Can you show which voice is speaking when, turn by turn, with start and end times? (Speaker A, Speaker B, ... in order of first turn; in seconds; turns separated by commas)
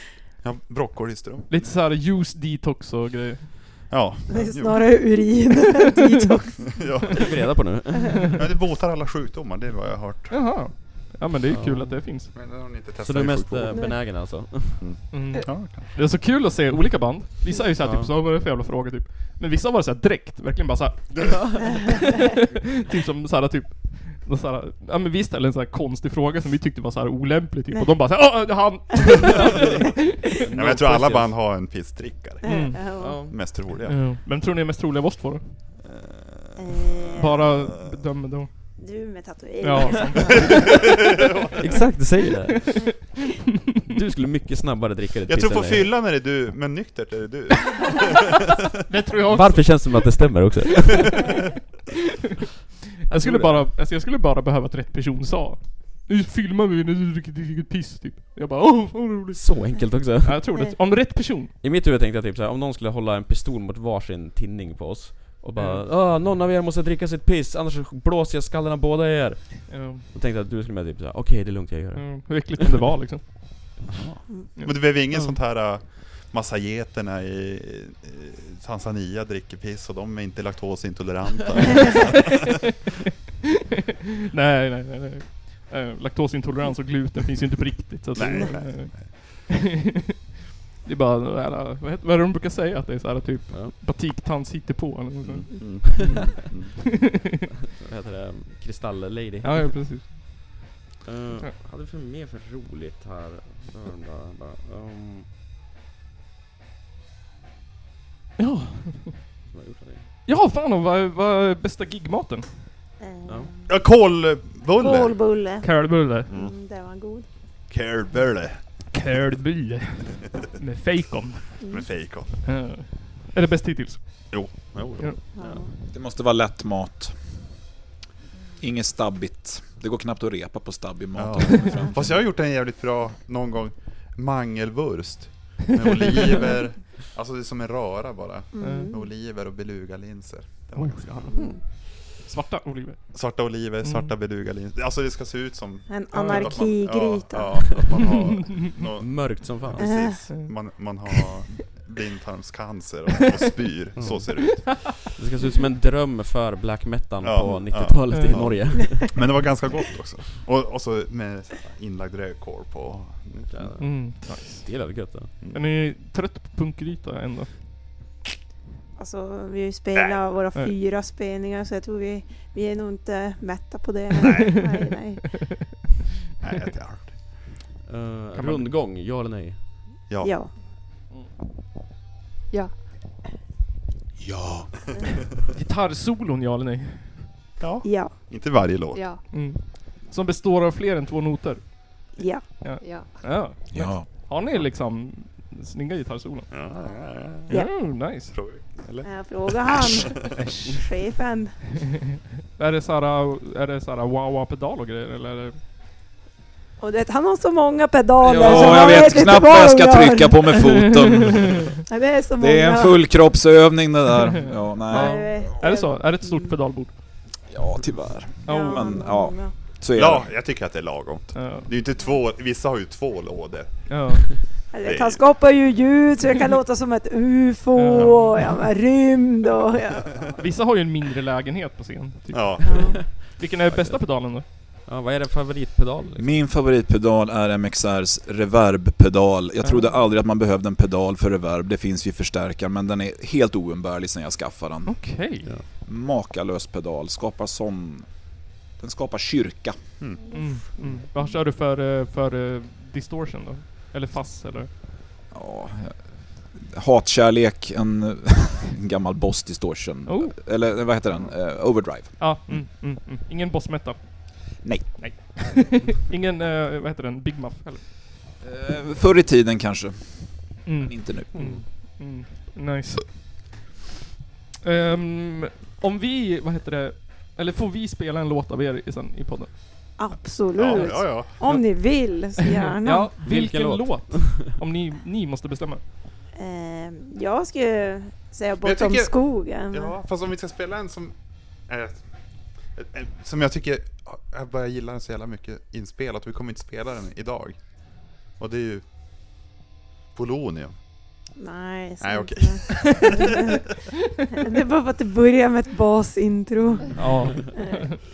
Speaker A: 0.4-1.7, Speaker B: 1.5-3.9, Speaker A: 3.9-5.0, Speaker C: 4.3-6.8, Speaker A: 6.8-10.4, Speaker D: 7.1-8.3, Speaker B: 10.3-12.3, Speaker D: 11.5-12.4, Speaker A: 12.3-15.9, Speaker D: 13.0-14.9, Speaker C: 13.7-14.0, Speaker B: 15.1-30.5, Speaker D: 17.8-18.1, Speaker D: 21.3-21.7, Speaker D: 30.4-31.4, Speaker A: 30.6-34.1, Speaker C: 32.4-33.2, Speaker B: 32.4-35.7, Speaker D: 33.0-33.6, Speaker A: 35.9-38.0, Speaker C: 36.6-37.4, Speaker B: 37.2-38.8, Speaker C: 38.8-41.0, Speaker B: 39.6-40.8, Speaker A: 40.3-40.9, Speaker D: 41.6-43.1, Speaker B: 41.7-43.4, Speaker D: 43.9-45.9, Speaker A: 45.3-48.3, Speaker B: 48.9-51.1, Speaker D: 49.3-51.2, Speaker B: 53.1-61.5, Speaker D: 53.1-53.7, Speaker D: 59.4-60.5, Speaker D: 61.6-72.7, Speaker B: 65.6-65.8, Speaker B: 69.7-70.1, Speaker B: 71.9-73.9, Speaker A: 74.0-82.4, Speaker B: 74.6-75.3, Speaker B: 81.8-82.7, Speaker B: 84.3-89.9, Speaker A: 88.1-89.2, Speaker B: 90.8-97.5, Speaker D: 93.5-93.8, Speaker A: 95.2-96.8, Speaker D: 95.5-96.4, Speaker D: 97.8-99.8, Speaker B: 99.4-100.4, Speaker D: 101.0-105.3, Speaker B: 108.4-109.2, Speaker D: 109.5-110.1, Speaker B: 110.3-112.6, Speaker C: 113.0-113.7, Speaker A: 113.7-115.2, Speaker C: 114.8-117.3, Speaker B: 115.6-116.3, Speaker A: 116.3-116.5, Speaker A: 117.7-118.7, Speaker B: 118.9-121.8, Speaker C: 121.6-121.9, Speaker A: 121.7-122.4, Speaker B: 122.4-125.2, Speaker A: 124.3-125.2, Speaker C: 125.3-125.7, Speaker E: 125.8-127.5, Speaker E: 128.6-132.3, Speaker A: 131.1-141.4, Speaker B: 135.8-136.5, Speaker C: 138.5-139.1, Speaker B: 138.6-138.9, Speaker B: 140.7-143.2, Speaker A: 143.1-154.9, Speaker B: 143.8-144.1, Speaker C: 145.9-147.8, Speaker B: 146.1-146.8, Speaker B: 147.9-148.9, Speaker D: 149.0-150.1, Speaker C: 149.8-150.2, Speaker B: 150.3-150.6, Speaker D: 153.9-159.5, Speaker B: 154.5-154.9, Speaker A: 157.2-164.1, Speaker B: 158.1-158.5, Speaker D: 163.5-165.4, Speaker B: 163.8-167.7, Speaker A: 165.4-165.7, Speaker C: 168.9-175.5, Speaker A: 169.9-170.2, Speaker A: 174.2-174.6, Speaker A: 176.4-177.4, Speaker D: 177.9-179.9, Speaker B: 178.3-178.8, Speaker A: 180.1-180.4, Speaker C: 180.2-180.5, Speaker F: 182.5-182.8, Speaker E: 184.2-184.7, Speaker B: 185.5-187.3, Speaker A: 187.6-189.2, Speaker C: 187.8-188.2, Speaker F: 188.9-189.3, Speaker B: 189.3-196.7, Speaker C: 192.2-192.4, Speaker F: 192.8-193.5, Speaker E: 193.7-194.3, Speaker A: 196.5-200.1, Speaker B: 197.5-198.4, Speaker C: 199.0-201.6, Speaker B: 200.4-200.8, Speaker B: 202.6-205.6, Speaker C: 206.8-210.9, Speaker D: 208.3-209.1, Speaker E: 208.3-211.7, Speaker B: 208.6-209.0, Speaker B: 210.7-211.7, Speaker C: 211.9-213.0, Speaker E: 212.4-215.6, Speaker B: 214.3-216.9, Speaker C: 214.9-216.5, Speaker E: 217.4-220.4, Speaker B: 218.4-219.2, Speaker C: 218.4-219.5, Speaker A: 219.9-224.2, Speaker B: 221.3-221.7, Speaker B: 223.9-224.4, Speaker C: 224.7-230.2, Speaker A: 224.8-225.2, Speaker B: 227.8-228.6, Speaker B: 230.3-234.4, Speaker A: 232.3-233.1, Speaker C: 232.6-233.0, Speaker D: 232.8-236.3, Speaker E: 236.2-249.8, Speaker B: 239.6-239.9, Speaker B: 244.9-245.7, Speaker A: 250.0-250.3, Speaker F: 250.1-251.2, Speaker B: 250.3-254.7, Speaker E: 255.3-262.6, Speaker B: 260.1-260.4, Speaker B: 262.1-267.9, Speaker E: 264.6-265.4, Speaker E: 268.4-271.6, Speaker B: 270.6-273.6, Speaker B: 274.6-280.1, Speaker C: 280.0-283.1, Speaker A: 280.6-281.4, Speaker B: 280.6-285.8, Speaker D: 283.2-284.6, Speaker C: 286.4-289.9, Speaker A: 288.6-292.1, Speaker A: 292.6-298.9, Speaker A: 300.1-300.8, Speaker C: 301.4-303.6, Speaker A: 302.0-303.2, Speaker C: 304.3-307.0, Speaker B: 307.0-307.9, Speaker C: 307.5-307.9